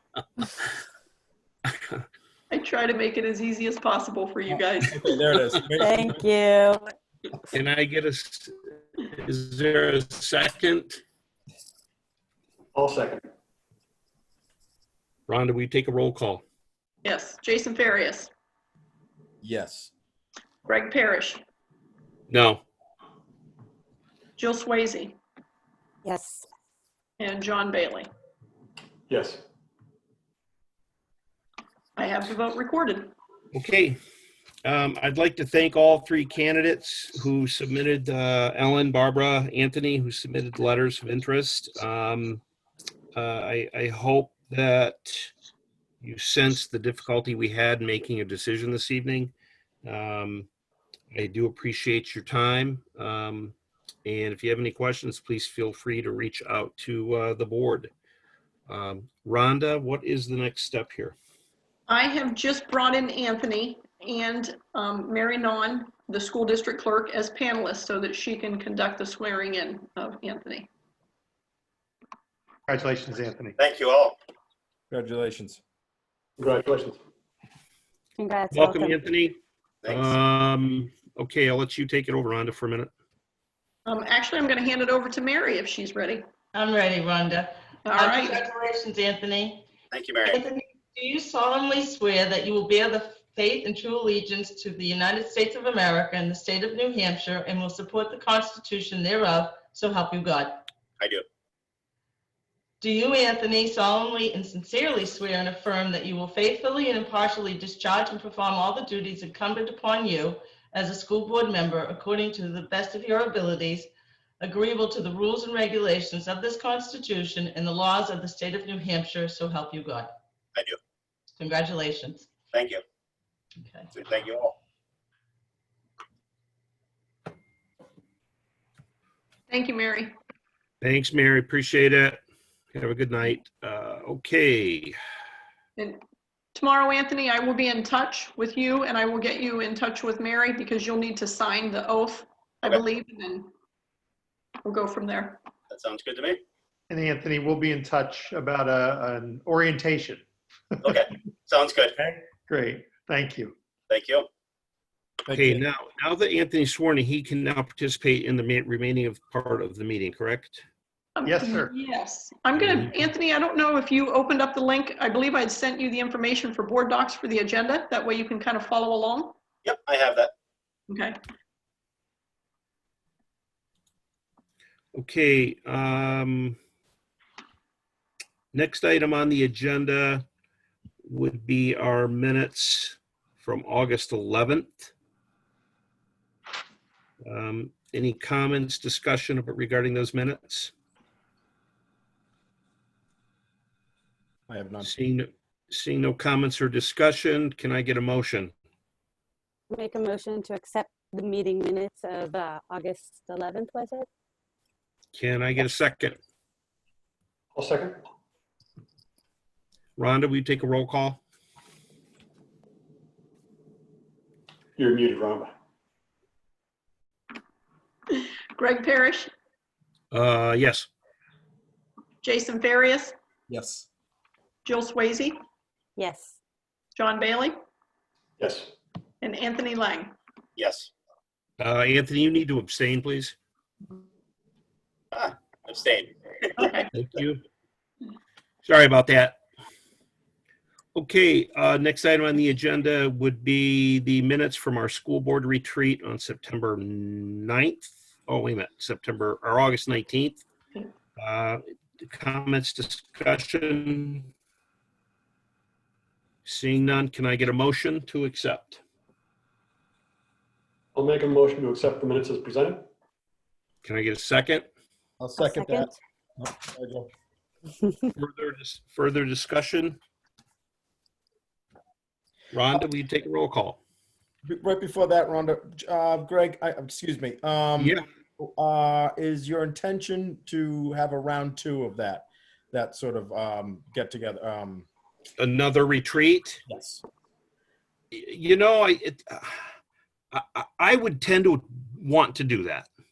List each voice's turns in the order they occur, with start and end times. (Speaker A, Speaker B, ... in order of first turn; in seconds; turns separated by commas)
Speaker A: 2.5-5.0, Speaker B: 4.5-6.2, Speaker C: 5.7-6.9, Speaker D: 7.5-8.5, Speaker D: 9.1-11.0, Speaker E: 12.7-13.2, Speaker D: 15.3-16.4, Speaker A: 17.0-18.3, Speaker B: 19.4-19.9, Speaker A: 20.6-21.4, Speaker D: 22.3-22.6, Speaker A: 24.4-25.1, Speaker C: 26.0-26.4, Speaker A: 27.2-28.1, Speaker E: 29.1-29.4, Speaker A: 31.9-33.1, Speaker D: 33.5-34.0, Speaker D: 34.6-42.4, Speaker D: 43.1-45.3, Speaker D: 46.0-49.3, Speaker D: 49.8-50.5, Speaker D: 51.1-57.9, Speaker D: 58.7-61.1, Speaker A: 61.9-70.7, Speaker F: 72.7-73.5, Speaker G: 73.6-74.2, Speaker B: 74.9-75.6, Speaker E: 76.4-77.0, Speaker C: 78.2-79.1, Speaker D: 78.5-82.9, Speaker G: 79.8-80.2, Speaker A: 83.8-86.2, Speaker H: 86.5-89.7, Speaker A: 87.8-88.4, Speaker G: 89.9-90.4, Speaker H: 90.2-100.6, Speaker H: 102.8-120.1, Speaker H: 121.4-122.3, Speaker G: 122.5-122.8, Speaker H: 123.6-123.9, Speaker G: 123.9-124.5, Speaker A: 129.5-130.1, Speaker D: 130.8-132.2, Speaker D: 132.7-134.9, Speaker A: 136.5-143.5, Speaker A: 144.6-145.4, Speaker G: 145.7-146.4, Speaker F: 146.9-150.2, Speaker G: 150.8-151.9, Speaker F: 152.0-153.5, Speaker G: 153.9-154.3, Speaker B: 155.2-155.6, Speaker D: 155.3-160.6, Speaker A: 161.2-169.3, Speaker F: 161.2-161.7, Speaker G: 169.6-170.3, Speaker A: 170.9-171.2, Speaker D: 174.9-176.6, Speaker D: 178.5-180.2, Speaker D: 181.0-184.9, Speaker D: 187.2-190.7, Speaker B: 194.5-194.9, Speaker D: 194.8-198.5, Speaker C: 199.7-204.1, Speaker D: 205.1-206.2, Speaker E: 207.5-208.0, Speaker D: 210.0-211.2, Speaker E: 214.8-215.5, Speaker A: 218.1-219.3, Speaker D: 220.1-220.9, Speaker A: 222.2-223.1, Speaker B: 223.5-223.9, Speaker A: 224.6-225.4, Speaker C: 226.0-226.3, Speaker A: 226.9-227.5, Speaker E: 228.4-228.7, Speaker A: 229.2-230.1, Speaker G: 230.6-230.9, Speaker D: 231.6-233.3, Speaker G: 235.1-236.8, Speaker D: 236.9-237.4, Speaker D: 238.6-239.4, Speaker D: 240.9-250.4, Speaker D: 251.2-254.3, Speaker D: 256.4-258.8, Speaker E: 260.9-262.8, Speaker D: 263.8-264.7, Speaker B: 265.2-267.1, Speaker C: 265.4-265.9, Speaker D: 268.1-270.0, Speaker D: 272.5-273.8, Speaker B: 274.4-284.9, Speaker D: 285.4-286.6, Speaker B: 286.7-287.0, Speaker D: 288.1-289.6, Speaker D: 290.3-292.9